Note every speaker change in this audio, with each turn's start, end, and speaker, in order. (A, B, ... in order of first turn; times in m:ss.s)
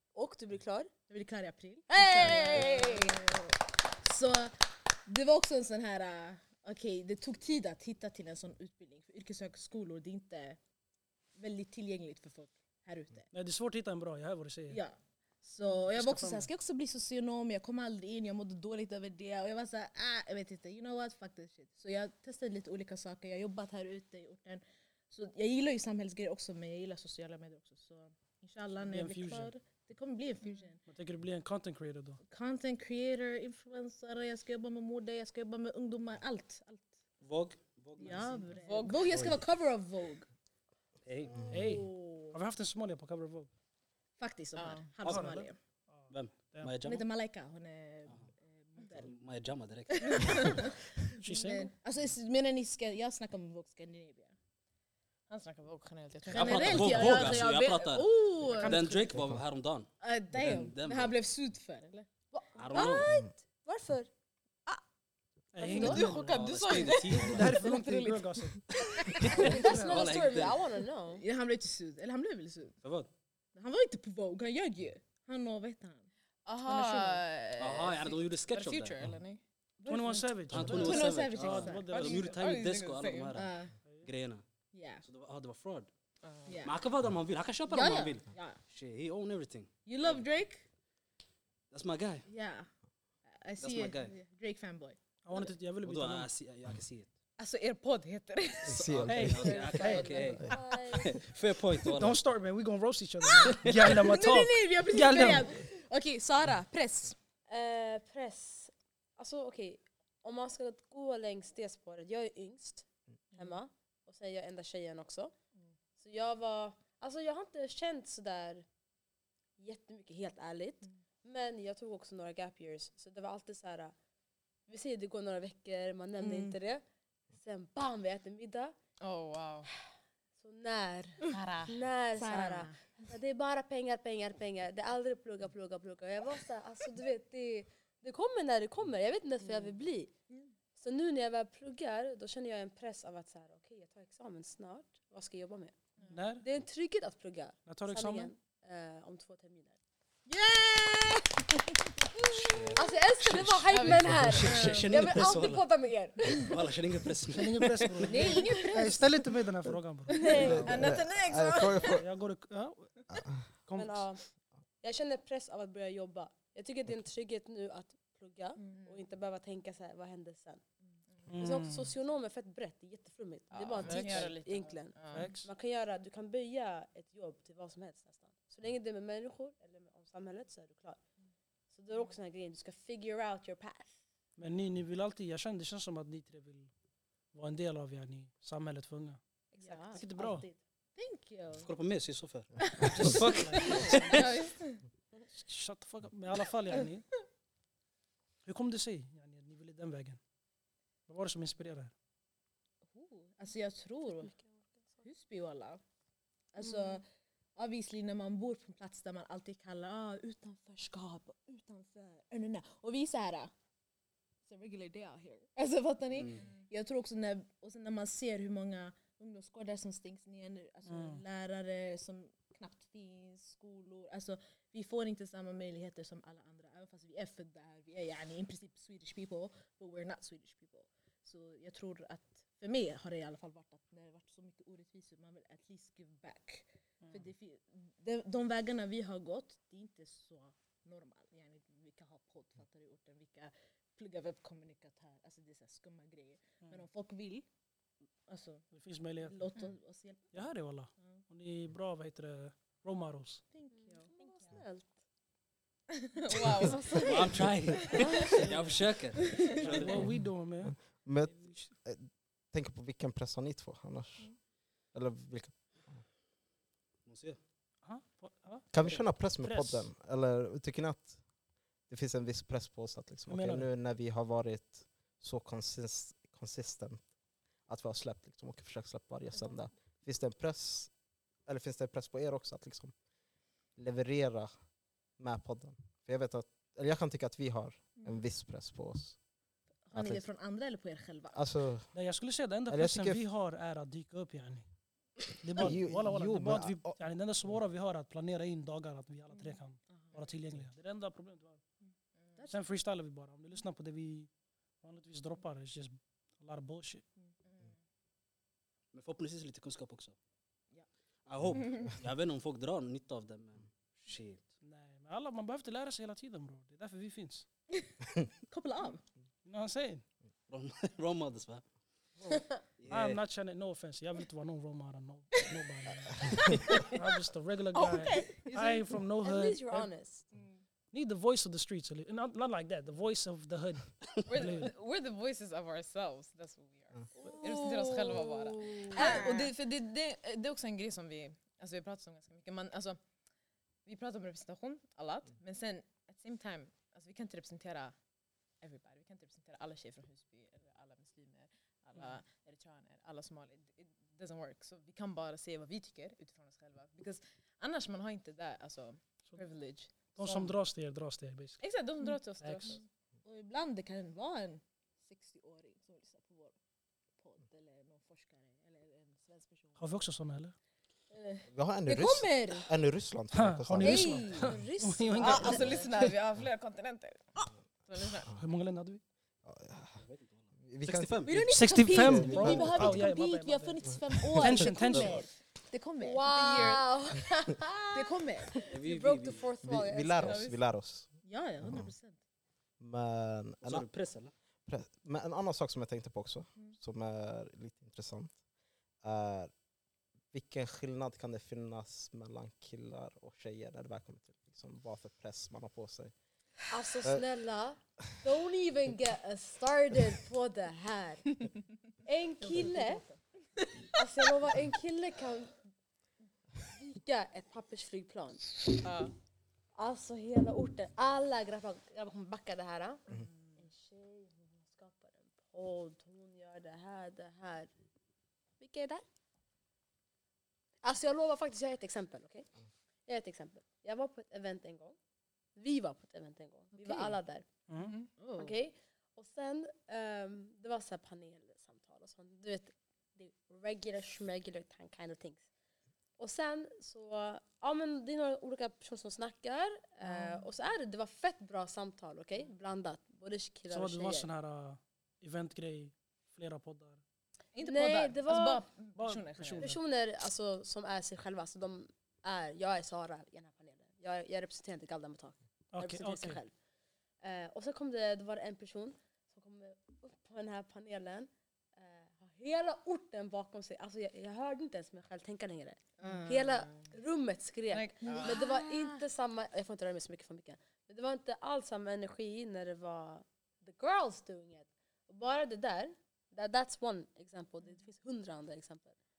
0:00.1-0:00.9 A
0:01.1-0:10.6 B
0:01.9-0:03.2 A
0:11.4-0:13.3 B
0:13.3-0:14.8 C
0:14.7-0:30.8 B
0:15.9-0:16.5 C
0:28.8-0:29.5 C
0:30.9-0:32.2 C
0:32.2-0:37.0 B
0:37.2-0:38.4 D
0:38.0-0:40.3 B
0:38.6-0:39.1 E
0:39.1-0:39.4 D
0:41.0-0:41.5 D
0:41.3-0:41.6 F
0:41.5-0:43.5 C
0:41.5-0:42.4 B
0:44.2-0:45.6 B
0:44.6-0:44.9 E
0:45.0-0:46.8 C
0:46.1-0:47.0 D
0:46.8-0:49.1 B
0:48.9-0:50.7 D
0:50.0-0:54.3 B
0:51.2-0:51.7 C
0:55.3-0:58.7 E
0:56.2-0:58.9 B
0:56.3-1:01.1 D
0:58.6-0:59.0 C
0:59.1-0:59.4 F
1:00.0-1:02.1 B
1:02.3-1:04.1 A
1:02.6-1:03.2 D
1:05.5-1:06.5 C
1:05.6-1:08.2 E
1:05.7-1:06.0 A
1:05.8-1:07.6 D
1:07.1-1:10.0 C
1:09.1-1:10.6 D
1:09.1-1:09.5 B
1:09.4-1:11.2 A
1:11.2-1:12.8 B
1:12.8-1:13.1 D
1:13.5-1:16.1 B
1:16.4-1:19.4 E
1:16.6-1:17.2 B
1:17.6-1:19.0 D
1:19.8-1:22.0 B
1:19.8-1:22.4 C
1:20.5-1:23.5 D
1:21.9-1:23.4 E
1:23.3-1:23.7 B
1:24.0-1:24.4 D
1:24.7-1:25.0 B
1:25.0-1:25.9 D
1:26.2-1:26.6 E
1:26.5-1:26.8 B
1:26.6-1:30.2 D
1:27.7-1:28.6 B
1:29.8-1:30.6 B
1:31.7-1:32.2 D
1:32.3-1:32.7 B
1:33.4-1:35.0 B
1:33.6-1:34.1 D
1:35.2-1:36.3 C
1:35.8-1:37.1 D
1:37.4-1:40.4 E
1:38.7-1:39.4 F
1:38.7-1:42.2 D
1:39.0-1:40.5 C
1:39.4-1:41.2 A
1:39.9-1:40.3 B
1:41.8-1:45.5 C
1:43.3-1:47.2 B
1:43.4-1:43.9 D
1:47.5-1:55.3 A
1:56.0-1:58.6 A
1:59.6-2:03.9 A
2:04.7-2:08.7 A
2:06.2-2:06.5 B
2:09.0-2:09.7 E
2:09.8-2:20.1 A
2:11.3-2:11.8 E
2:12.2-2:12.9 B
2:20.8-2:25.7 A
2:26.1-2:26.4 C
2:26.4-2:29.8 A
2:27.6-2:28.3 C
2:30.3-2:32.5 B
2:32.4-2:35.6 D
2:32.5-2:36.6 A
2:33.7-2:34.9 E
2:36.3-2:38.1 D
2:37.3-2:40.4 C
2:38.0-2:39.1 B
2:38.1-2:38.7 A
2:40.1-2:40.8 A
2:40.1-2:42.0 B
2:40.3-2:42.0 F
2:41.9-2:43.0 C
2:43.1-2:43.4 F
2:43.6-2:44.0 C
2:43.7-2:44.2 A
2:44.8-2:50.6 A
2:48.6-2:49.0 E
2:51.3-2:51.9 C
2:51.3-3:01.0 A
2:53.5-2:55.3 E
2:55.1-2:55.5 C
3:01.7-3:04.0 A
3:04.4-3:06.7 C
3:07.3-3:09.2 C
3:09.6-3:10.6 A
3:09.6-3:10.0 E
3:10.0-3:10.4 C
3:11.0-3:11.6 B
3:11.6-3:14.3 D
3:12.8-3:14.3 C
3:13.6-3:14.8 E
3:15.3-3:17.1 C
3:18.4-3:20.2 C
3:21.1-3:21.9 C
3:22.9-3:24.3 B
3:24.4-3:25.0 A
3:25.0-3:25.8 B
3:26.5-3:27.0 B
3:27.6-3:33.5 B
3:34.5-4:07.5 B
3:40.9-3:41.2 C
4:08.3-4:08.6 B
4:08.7-4:09.4 C
4:09.2-4:10.5 B
4:10.3-4:13.4 C
4:13.5-4:14.5 B
4:13.8-4:14.9 A
4:16.1-4:17.3 E
4:16.6-4:18.4 A
4:17.0-4:20.0 D
4:18.2-4:18.8 C
4:19.4-4:21.7 C
4:19.6-4:19.9 B
4:20.6-4:24.3 F
4:24.9-4:26.0 F
4:27.0-4:27.4 D
4:27.8-4:29.9 C
4:28.7-4:31.2 F
4:31.9-4:37.0 F
4:33.3-4:33.7 C
4:37.7-4:40.9 F
4:41.4-4:42.9 F
4:43.8-4:44.5 F
4:45.2-4:49.2 F
4:49.8-4:51.4 B
4:49.9-4:50.2 F
4:51.3-4:51.9 F
4:51.9-4:54.7 C
4:52.7-4:53.2 F
4:55.3-5:01.6 C
4:55.6-4:57.0 F
5:02.5-5:04.3 C
5:04.8-5:07.0 C
5:08.9-5:10.1 D
5:11.3-5:14.5 D
5:14.6-5:17.4 C
5:18.5-5:19.0 B
5:19.4-5:20.0 C
5:20.5-5:21.6 D
5:22.8-5:23.2 D
5:22.9-5:29.9 C
5:26.5-5:26.8 B
5:27.7-5:28.6 E
5:29.2-5:30.2 A
5:30.9-5:34.7 C
5:34.2-5:43.0 E
5:37.2-5:39.4 A
5:38.9-5:39.5 B
5:43.8-5:47.9 E
5:48.6-6:00.5 E
6:00.1-6:01.6 C
6:01.6-6:02.8 E
6:02.4-6:02.8 C
6:03.2-6:06.5 B
6:07.2-6:09.8 B
6:09.8-6:10.5 C
6:11.1-6:12.7 B
6:11.5-6:14.5 F
6:13.3-6:15.8 C
6:13.8-6:15.9 A
6:15.1-6:17.3 E
6:17.9-6:18.3 E
6:18.3-6:19.0 C
6:19.4-6:20.0 F
6:20.0-6:21.4 D
6:20.6-6:23.1 F
6:21.2-6:26.8 B
6:21.5-6:25.2 C
6:24.4-6:25.0 F
6:26.0-6:30.5 A
6:26.3-6:26.8 E
6:27.9-6:28.6 B
6:28.6-6:29.5 D
6:29.6-6:31.1 F
6:30.2-6:30.6 E
6:31.2-6:32.2 B
6:31.6-6:31.9 F
6:32.8-6:33.8 F
6:33.6-6:34.3 D
6:34.6-6:38.3 F
6:39.0-6:39.5 F
6:40.3-6:46.1 F
6:46.7-6:51.3 A
6:52.0-6:53.0 A
6:52.4-6:53.1 B
6:53.9-6:55.6 A
6:56.7-6:58.6 A
6:58.8-6:59.1 E
6:59.8-7:03.0 A
7:03.6-7:07.7 A
7:08.6-7:09.0 A
7:10.8-7:12.5 A
7:13.1-7:15.0 A
7:15.6-7:17.5 A
7:17.7-7:18.0 C
7:17.8-7:18.5 E
7:18.4-7:25.5 A
7:26.2-7:34.3 A
7:33.7-7:37.0 C
7:37.5-7:39.7 E
7:37.6-7:38.7 A
7:39.0-7:39.8 C
7:39.6-7:46.5 A
7:45.7-7:46.4 C
7:47.2-8:09.0 A
7:56.0-7:56.6 B
7:57.7-7:58.4 E
7:58.1-7:58.8 B